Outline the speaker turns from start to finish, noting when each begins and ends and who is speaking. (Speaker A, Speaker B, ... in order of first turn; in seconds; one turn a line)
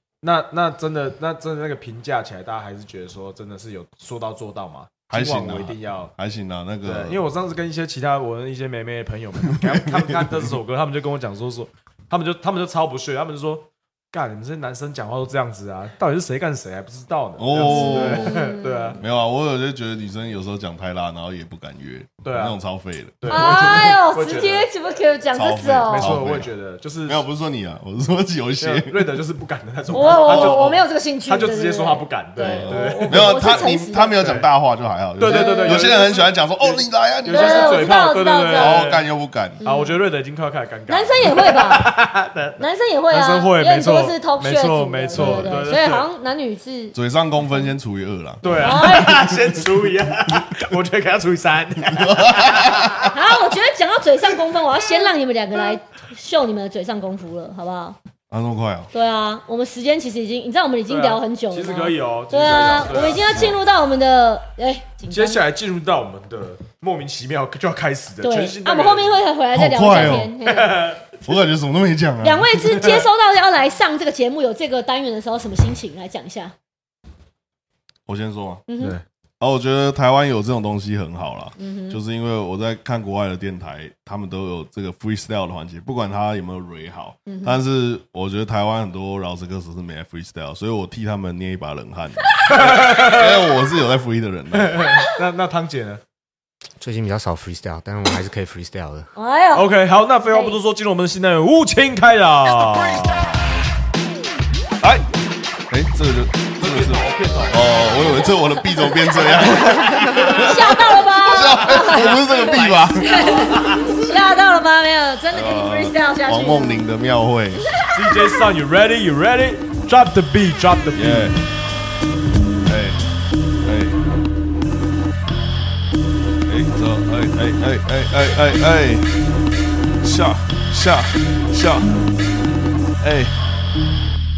Speaker A: 0.2-6.1
Speaker B: 5.1-7.2
Speaker A: 6.8-19.0
Speaker B: 9.5-10.4
Speaker B: 17.4-18.4
Speaker C: 17.6-19.0
Speaker B: 19.0-23.9
Speaker A: 22.2-22.6
Speaker A: 23.2-24.7
Speaker C: 23.3-26.1
Speaker B: 25.3-26.5
Speaker A: 25.9-27.2
Speaker B: 27.1-29.1
Speaker A: 28.6-33.4
Speaker C: 29.9-34.2
Speaker B: 30.3-30.6
Speaker B: 32.4-38.0
Speaker A: 34.2-34.5
Speaker A: 35.2-39.0
Speaker C: 35.2-36.2
Speaker C: 37.2-38.9
Speaker B: 38.5-39.6
Speaker C: 39.6-40.0
Speaker A: 39.6-46.0
Speaker C: 40.9-42.0
Speaker C: 42.6-47.0
Speaker B: 45.1-45.5
Speaker B: 46.9-48.4
Speaker A: 48.4-53.1
Speaker C: 48.5-49.5
Speaker B: 51.9-53.1
Speaker C: 53.1-58.0
Speaker B: 58.3-58.9
Speaker C: 58.9-65.4
Speaker A: 60.9-63.5
Speaker B: 63.2-63.6
Speaker A: 65.1-69.2
Speaker C: 68.2-70.8
Speaker B: 69.5-70.3
Speaker A: 70.0-71.1
Speaker B: 71.2-72.5
Speaker C: 72.2-76.5
Speaker A: 72.7-73.0
Speaker B: 78.0-78.6
Speaker C: 78.7-79.0
Speaker B: 79.4-94.9
Speaker C: 81.6-82.0
Speaker C: 87.3-87.6
Speaker A: 92.5-93.5
Speaker A: 94.5-96.0
Speaker D: 96.8-99.1
Speaker C: 99.2-100.6
Speaker A: 99.5-103.4
Speaker B: 104.8-105.0
Speaker B: 105.7-113.4
Speaker A: 106.6-108.2
Speaker A: 109.2-110.7
Speaker C: 110.1-116.8
Speaker A: 111.5-114.0
Speaker B: 115.3-117.7
Speaker A: 117.9-121.3
Speaker B: 120.9-121.4
Speaker B: 122.6-123.0
Speaker B: 123.6-124.0
Speaker B: 126.5-129.2
Speaker B: 130.0-131.9
Speaker B: 133.0-133.3